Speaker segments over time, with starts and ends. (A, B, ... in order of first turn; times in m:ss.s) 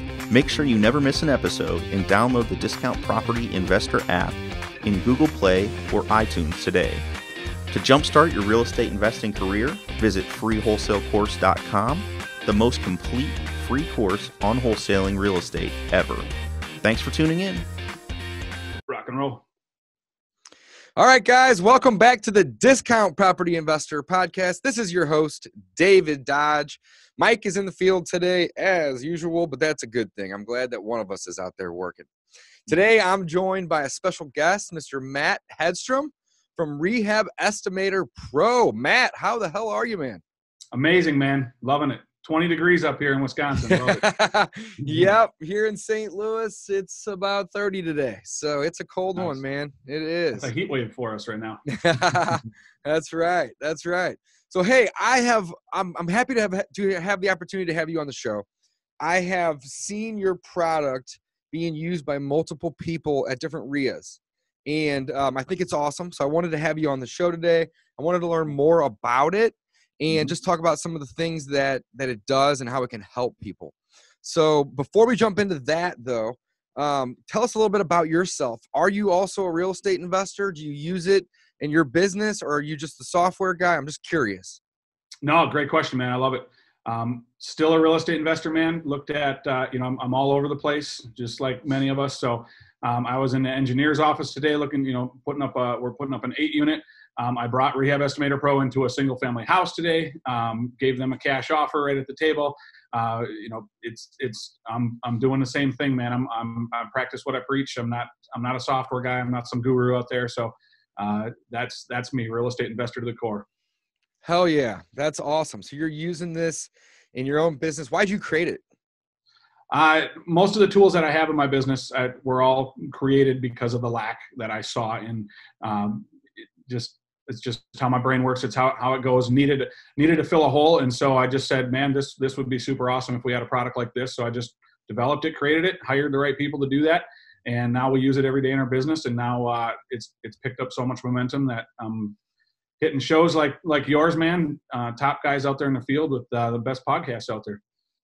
0:00.3-0:07.0 A
0:07.7-0:16.2 A
0:16.8-0:17.6 A
0:18.9-0:19.4 B
0:21.0-0:32.1 C
0:32.6-0:40.2 C
0:40.7-0:44.1 B
0:43.7-0:50.5 C
0:44.8-0:45.1 B
0:50.3-0:51.6 B
0:51.7-0:58.4 C
0:59.0-1:24.6 C
1:25.2-1:53.5 B
1:54.2-1:58.6 C
1:59.7-2:06.1 B
2:06.6-2:22.2 B
2:22.8-2:27.6 B